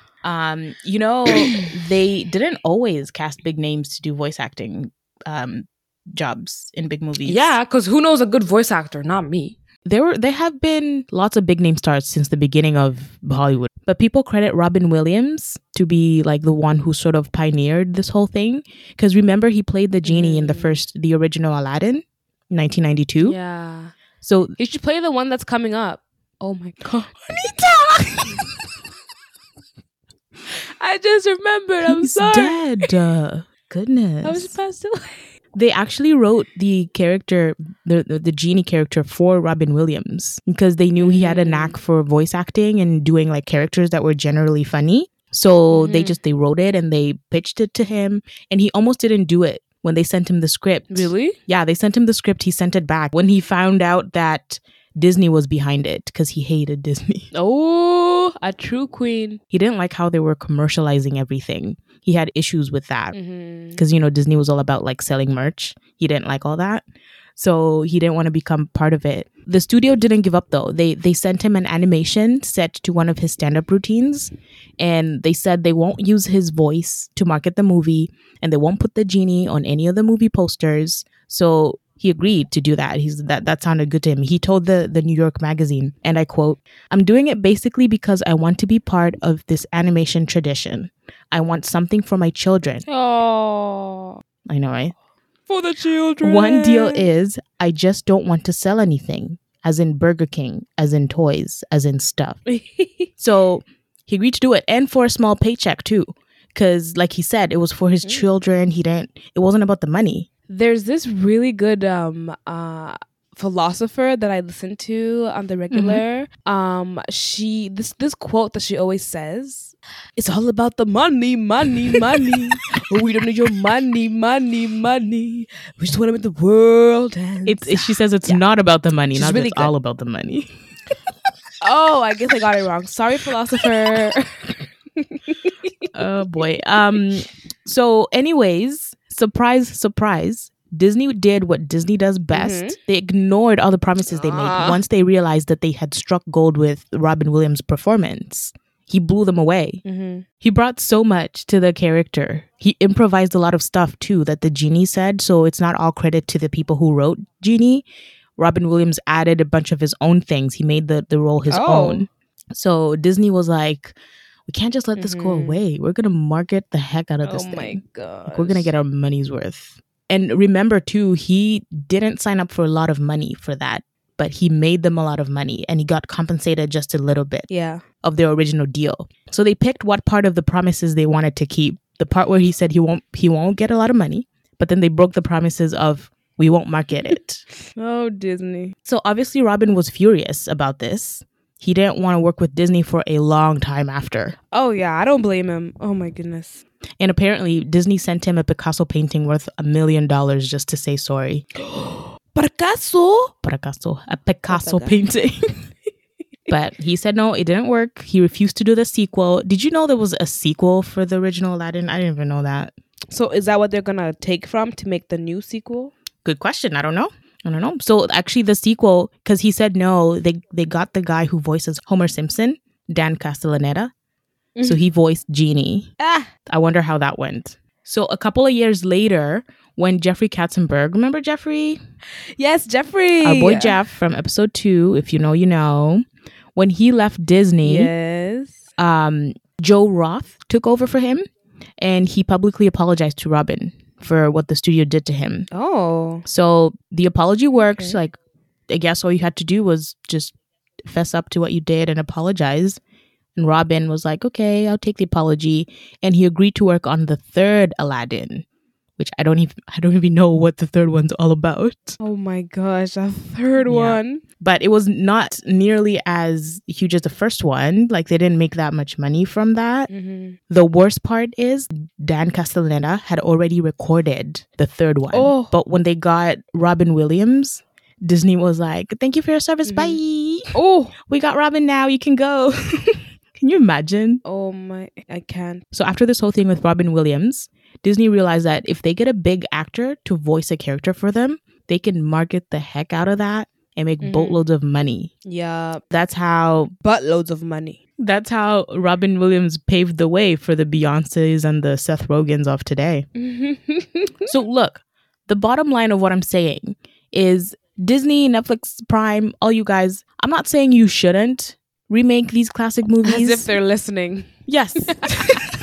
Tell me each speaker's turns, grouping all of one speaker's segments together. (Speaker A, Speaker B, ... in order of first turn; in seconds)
Speaker A: 0.2-7.6, 9.8-23.4, 24.2-24.6, 26.9-28.3, 31.9-34.6, 35.5-57.3, 59.5-63.2, 63.8-66.8, 67.4-92.8, 94.5-94.9, 96.2-102.4, 103.2-110.3, 115.7-116.0, 127.5-130.5, 135.9-149.8, 150.4-157.9, 158.4-164.0, 164.5-177.5, 178.0-187.4, 188.8-194.4, 197.0-201.4, 203.4-205.4, 206.5-212.7, 216.2-223.9, 224.6-225.9, 226.5-231.8, 233.2-236.0, 236.6-237.9, 238.8-241.2, 241.8-245.5, 246.3-248.2, 248.7-252.8, 253.4-258.4, 259.0-262.0, 263.7-269.9, 270.5-284.2, 285.7-295.1, 295.9-296.7, 298.0-303.1, 304.3-313.5, 314.5-315.5
Speaker B: 1.3-1.7, 7.2-9.6, 20.1-20.8, 23.2-23.9, 24.6-28.4, 30.8-32.7, 34.2-35.3, 41.0-41.8, 45.7-46.2, 50.9-51.4, 57.3-59.4, 63.1-63.8, 92.9-94.2, 95.5-97.1, 102.5-103.1, 110.5-128.4, 129.1-129.7, 131.6-134.6, 135.1-135.7, 142.3-142.8, 144.1-144.8, 149.8-150.2, 161.5-162.1, 165.0-165.6, 167.2-168.7, 177.5-177.8, 187.8-188.7, 194.5-196.6, 201.7-203.3, 204.5-205.1, 213.1-215.9, 224.6-224.8, 226.0-226.3, 232.4-233.8, 237.6-238.6, 245.5-246.2, 247.6-248.0, 262.0-264.2, 269.9-270.4, 275.1-275.5, 279.7-280.0, 280.5-280.9, 284.2-285.6, 294.0-294.4, 295.2-295.8, 296.8-297.8, 303.2-304.3, 313.0-314.3, 314.8-315.2